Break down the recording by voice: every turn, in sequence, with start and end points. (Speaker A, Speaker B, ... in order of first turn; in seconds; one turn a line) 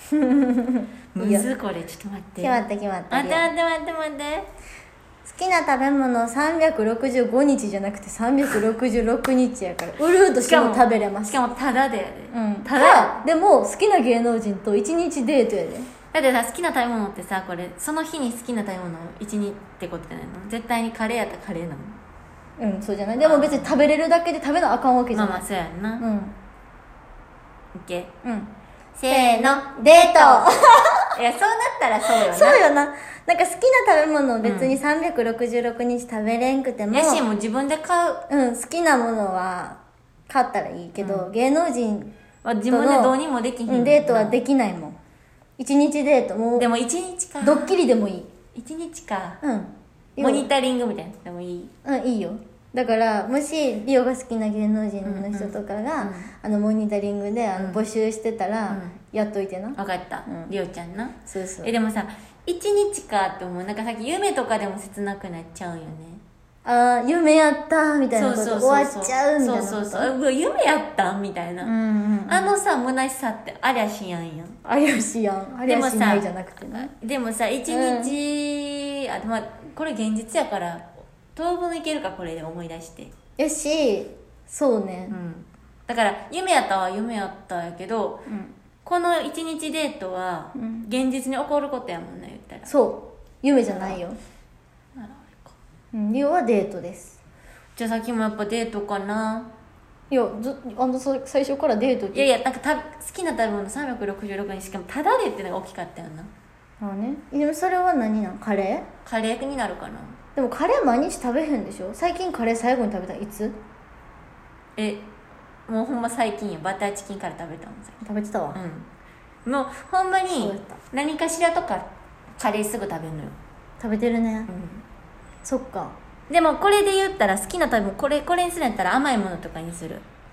Speaker A: 0.2-1.5
Speaker B: 1.1-4.5
Speaker A: 2.4-3.5
Speaker A: 5.2-11.4
Speaker B: 10.4-13.2
Speaker A: 12.3-15.9
Speaker B: 16.1-22.0
Speaker A: 22.6-25.4
Speaker B: 23.2-23.8
Speaker B: 25.1-26.1
Speaker A: 26.0-26.4
Speaker B: 27.7-28.1
Speaker A: 28.2-28.5
Speaker B: 29.0-30.5
Speaker A: 29.1-31.1
Speaker B: 31.1-32.6
Speaker A: 32.1-37.2
Speaker B: 34.4-34.8
Speaker B: 36.9-38.2
Speaker A: 38.3-42.1
Speaker B: 41.0-41.3
Speaker B: 42.4-44.4
Speaker A: 42.7-43.2
Speaker A: 43.7-45.0
Speaker A: 45.6-46.7
Speaker B: 46.6-47.8
Speaker A: 47.4-48.3
Speaker B: 48.5-49.4
Speaker A: 49.4-50.5
Speaker B: 50.2-51.7
Speaker A: 51.9-60.5
Speaker B: 55.0-56.3
Speaker B: 57.6-57.8
Speaker B: 58.7-59.0
Speaker B: 59.8-66.2
Speaker A: 61.3-61.7
Speaker A: 66.7-70.1
Speaker B: 68.1-71.7
Speaker A: 71.6-72.5
Speaker B: 72.3-74.6
Speaker A: 74.7-76.9
Speaker B: 75.7-83.1
Speaker A: 77.7-78.1
Speaker A: 83.4-85.2
Speaker B: 85.1-88.3
Speaker A: 88.3-88.5
Speaker B: 88.8-92.7
Speaker A: 90.6-90.9
Speaker A: 92.7-94.2
Speaker B: 93.7-94.0
Speaker B: 95.0-95.5
Speaker A: 95.9-97.2
Speaker B: 97.8-99.5
Speaker A: 100.1-102.3
Speaker B: 102.1-106.3
Speaker A: 106.8-108.9
Speaker B: 109.0-110.2
Speaker A: 110.4-113.6
Speaker B: 114.8-115.0
Speaker B: 115.7-118.0
Speaker A: 118.0-118.6
Speaker B: 118.5-118.9
Speaker B: 119.5-123.3
Speaker A: 120.4-120.8
Speaker A: 123.8-124.5
Speaker B: 124.5-124.8
Speaker A: 125.5-126.0
Speaker B: 126.3-130.0